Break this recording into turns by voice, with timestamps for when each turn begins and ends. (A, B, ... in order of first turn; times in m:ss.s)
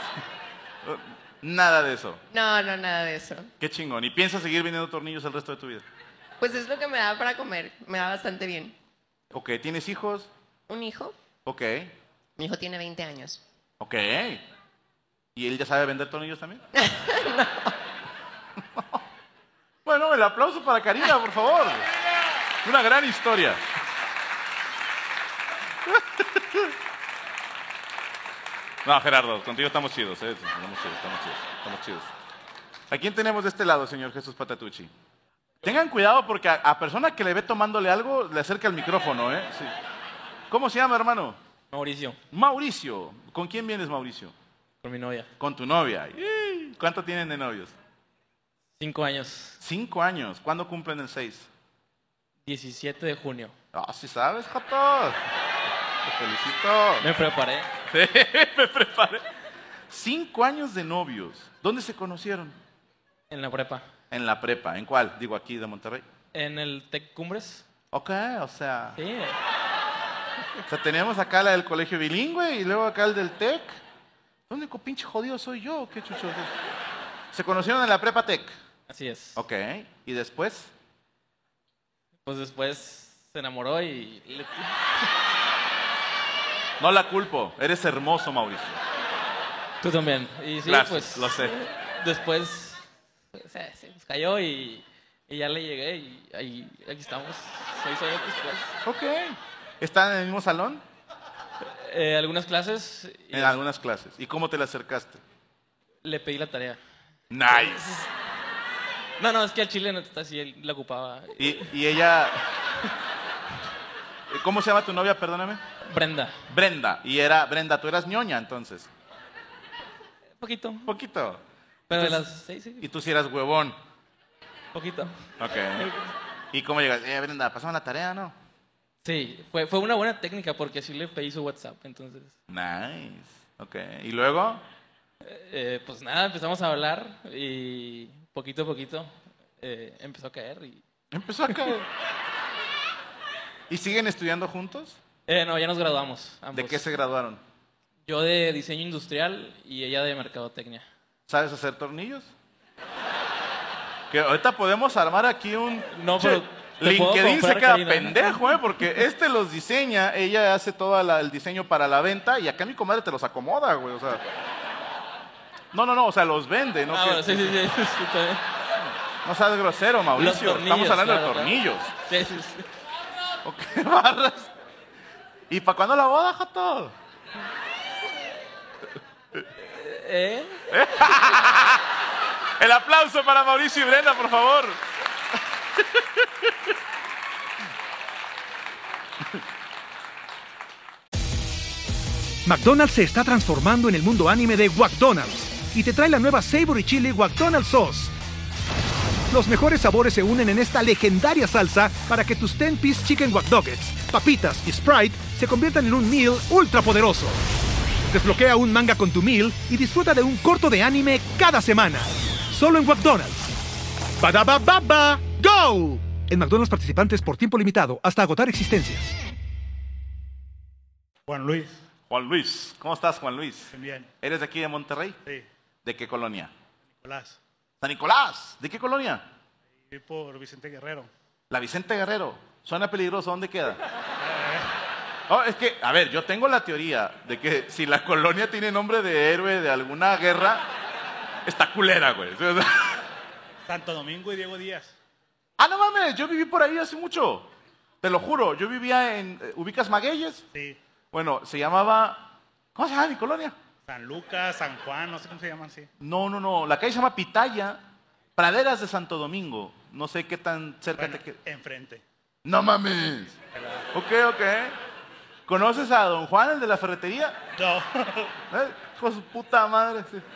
0:00.8-0:02.2 A
0:02.3-0:03.5 B
0:03.6-0:05.8 A
0:06.4-0:08.8 B
0:09.3-0:10.3 A
0:10.7-0:11.2 B
0:11.4-0:12.0 A
0:12.4-0:13.4 B
0:13.8-0:14.4 A
0:15.3-0:16.6 A
0:16.7-0:17.7 B
0:18.6-0:19.0 A
0:19.8-0:21.9 A
0:22.6-0:23.6 A
0:25.8-0:26.7 A
0:28.8-0:32.1 A
0:32.9-0:34.9 A
0:35.6-0:39.7 A
0:40.5-0:41.4 A
0:41.7-0:42.2 C
0:42.3-0:44.3 A
0:44.8-0:45.3 C
0:45.4-0:47.7 A
0:48.8-0:49.6 C
0:49.6-0:51.5 A
0:52.4-0:53.5 C
0:53.7-0:55.2 A
0:56.0-0:57.1 A
0:57.0-0:57.7 C
0:57.9-0:59.2 A
0:59.9-1:02.6 A
1:03.3-1:03.8 C
1:04.1-1:06.0 A
1:06.3-1:07.6 C
1:07.9-1:09.0 A
1:09.0-1:09.4 C
1:10.7-1:13.8 A
1:14.5-1:16.6 A
1:17.3-1:18.5 A
1:18.9-1:19.4 C
1:19.4-1:20.7 A
1:22.2-1:25.0 C
1:26.8-1:28.8 A
1:29.8-1:32.8 C
1:30.6-1:31.6 A
1:33.3-1:38.8 C
1:38.8-1:40.8 A
1:41.7-1:43.6 C
1:43.3-1:45.2 A
1:46.0-1:46.8 C
1:47.3-1:47.9 A
1:47.5-1:48.1 C
1:49.2-1:51.7 C
1:51.4-1:52.5 A
1:54.3-1:55.6 A
1:55.8-1:56.4 C
1:56.5-1:58.9 A
2:00.4-2:00.9 C
2:00.8-2:02.2 A
2:01.9-2:02.8 C
2:02.8-2:03.8 A
2:04.7-2:05.2 C
2:05.4-2:05.9 A
2:05.8-2:06.1 C
2:06.5-2:08.3 A
2:09.0-2:12.3 C
2:12.5-2:14.6 A
2:15.2-2:20.8 C
2:21.1-2:21.9 A
2:23.7-2:25.0 A
2:25.3-2:27.0 C
2:26.5-2:27.4 A
2:28.1-2:30.8 C
2:31.3-2:32.3 A
2:34.1-2:44.2 A
2:35.9-2:38.9 C
2:45.7-2:47.6 A
2:46.9-2:48.4 C
2:49.2-2:51.9 A
2:50.2-2:52.6 C
2:53.4-2:54.5 A
2:55.5-2:56.9 A
2:59.6-3:00.6 C
3:00.7-3:01.9 A
3:02.6-3:04.8 A
3:05.8-3:06.5 A
3:12.4-3:18.1 D
3:19.3-3:27.4 D
3:28.1-3:33.5 D
3:34.2-3:39.1 D
3:41.3-3:41.8 E
3:42.1-3:45.2 A
3:43.7-3:44.1 E
3:45.8-3:46.5 A
3:47.0-3:47.4 E
3:47.8-3:49.3 A
3:49.8-3:51.1 E
3:51.5-3:53.8 A
3:54.2-3:54.7 E
3:55.3-4:00.6 A
4:01.4-4:03.0 A
4:03.6-4:05.0 E
4:05.6-4:07.5 A
4:08.0-4:10.4 A
4:10.5-4:10.8 E
4:11.1-4:13.6 A
4:13.8-4:15.9 E
4:16.0-4:17.8 A
4:18.4-4:21.4 A
4:21.0-4:22.0 E
4:22.4-4:23.4 A
4:23.5-4:23.8 E
4:23.9-4:24.8 A
4:25.5-4:27.4 A
4:27.6-4:28.4 E
4:28.5-4:30.2 A